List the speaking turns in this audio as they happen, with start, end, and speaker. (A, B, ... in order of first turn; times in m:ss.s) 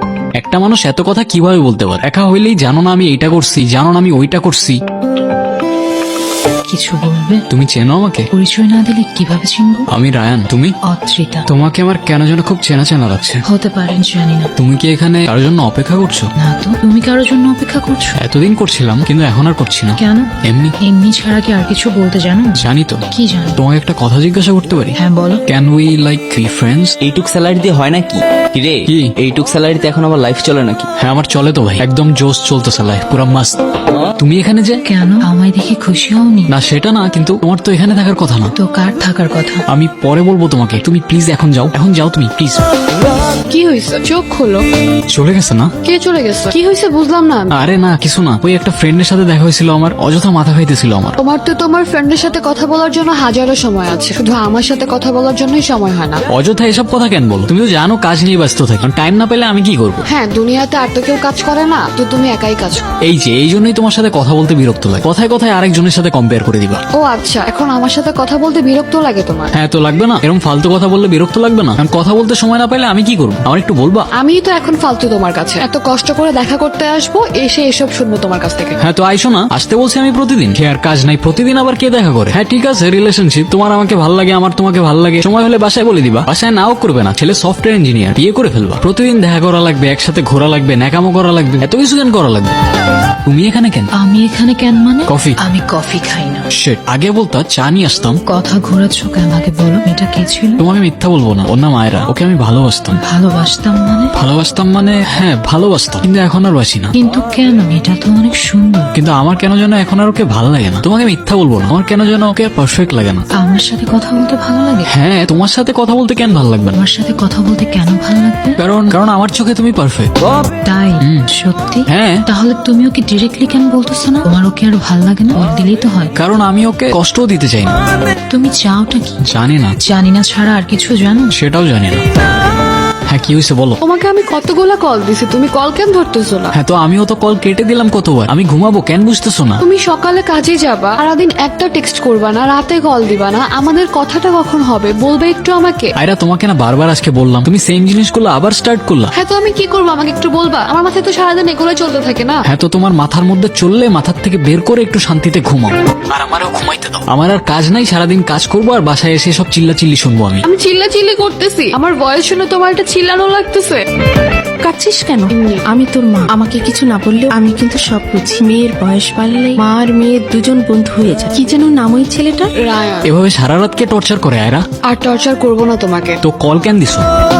0:00.4-0:04.8 A
0:06.7-0:07.4 B
0:07.5-0:08.3 A
0:08.3-0:09.9 B
0:09.9-0:10.8 A
0:10.8-0:11.5 B
0:11.5-0:13.4 A
0:13.4-0:14.5 B
0:14.6-0:16.3 A
0:16.4-0:18.2 B
0:18.2-0:20.7 A
0:20.0-0:23.6 B
0:22.6-0:23.0 A
0:23.6-0:25.0 A
0:25.0-0:25.4 B
0:25.5-0:27.0 A
0:27.0-0:30.9 C
0:28.9-0:29.1 A
0:31.0-0:33.6 A
0:34.2-0:34.8 A
0:34.8-0:36.5 B
0:36.5-0:38.5 A
0:38.6-0:39.6 B
0:39.7-0:42.6 A
0:43.5-0:44.6 D
0:45.1-0:45.7 A
0:45.8-0:47.6 D
0:47.5-0:51.2 A
0:51.2-0:56.2 D
0:56.3-1:00.0 A
1:00.0-1:02.8 D
1:03.0-1:06.8 A
1:06.9-1:09.5 D
1:09.5-1:14.1 A
1:14.2-1:18.8 D
1:18.8-1:32.5 A
1:33.2-1:33.9 A
1:34.0-1:36.4 B
1:35.1-1:35.4 A
1:36.5-1:38.2 A
1:38.3-1:40.6 B
1:40.6-1:43.0 A
1:43.0-1:44.1 B
1:44.1-1:46.9 A
1:46.9-1:48.9 B
1:48.9-1:53.2 A
1:53.4-1:54.9 B
1:54.9-1:56.8 A
1:56.7-1:58.6 B
1:58.6-2:00.1 A
2:00.6-2:06.1 B
2:01.0-2:01.3 A
2:01.9-2:02.2 A
2:06.2-2:07.7 A
2:08.3-2:09.3 B
2:09.2-2:09.8 A
2:09.8-2:11.3 B
2:11.3-2:12.0 A
2:13.1-2:13.8 A
2:13.8-2:16.5 D
2:16.5-2:19.6 A
2:19.6-2:25.9 D
2:26.0-2:29.1 A
2:29.1-2:32.4 D
2:32.4-2:40.4 A
2:40.4-2:43.8 D
2:44.6-2:52.5 E
2:45.3-2:45.6 D
2:52.6-2:53.1 D
2:53.0-2:54.6 A
2:54.9-2:56.2 D
2:56.2-2:57.0 A